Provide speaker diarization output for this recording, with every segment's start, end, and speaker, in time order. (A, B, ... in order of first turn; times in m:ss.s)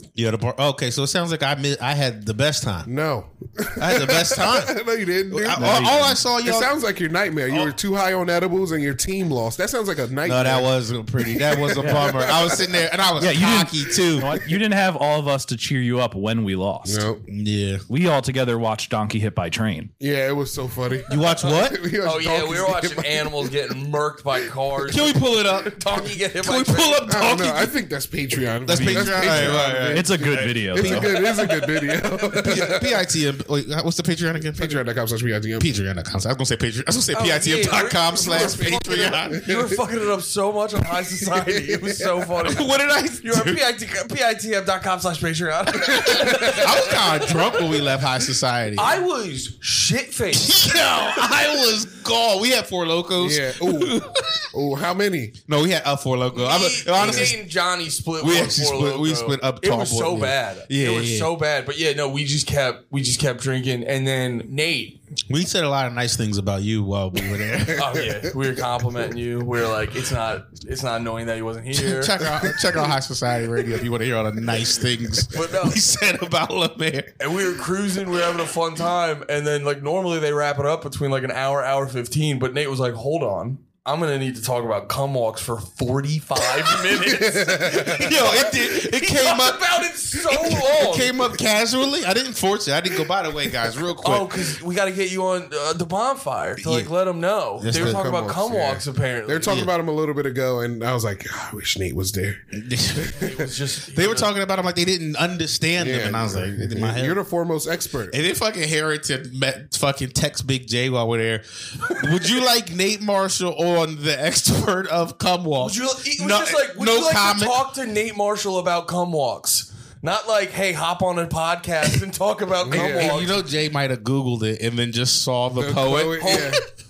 0:00.2-0:02.9 A
0:02.9-0:12.7 B
0:03.8-0:06.7 A
0:05.5-0:06.2 C
0:07.5-0:07.8 A
0:10.2-0:14.4 A
0:11.8-0:12.2 C
0:13.2-0:17.1 C
0:16.9-0:17.2 B
0:17.3-0:17.8 A
0:17.9-0:19.9 C
0:20.0-0:23.5 B
0:21.1-0:21.9 A
0:22.0-0:27.1 D
0:24.9-0:27.7 A
0:27.1-0:33.0 B
0:28.6-0:31.5 A
0:28.7-0:31.5 C
0:32.3-0:34.8 A
0:34.6-0:35.7 B
0:35.6-0:39.5 A
0:37.1-0:47.8 D
0:38.2-0:39.8 B
0:41.2-0:42.3 B
0:42.4-0:43.6 A
0:45.9-0:46.7 B
0:46.3-0:49.0 A
0:48.8-0:50.6 D
0:50.3-0:54.5 A
0:53.2-0:54.0 B
0:54.5-0:55.4 B
0:55.5-0:57.4 A
0:56.3-1:05.0 D
0:57.0-0:57.3 B
0:58.2-1:01.3 A
1:05.3-1:08.0 A
1:07.8-1:12.2 D
1:07.8-1:08.1 B
1:11.7-1:17.2 A
1:15.3-1:15.8 D
1:17.2-1:31.2 D
1:26.9-1:28.1 B
1:27.8-1:34.6 A
1:34.0-1:39.6 D
1:36.6-1:36.9 A
1:37.6-1:38.0 A
1:37.7-1:42.5 B
1:39.4-1:39.7 A
1:42.5-1:43.3 A
1:43.0-1:43.5 B
1:43.1-1:44.3 D
1:43.9-1:47.2 A
1:45.8-1:48.2 B
1:48.1-1:57.6 A
1:55.6-2:03.4 D
2:02.7-2:03.2 B
2:02.7-2:06.6 A
2:05.6-2:06.6 B
2:06.2-2:06.6 D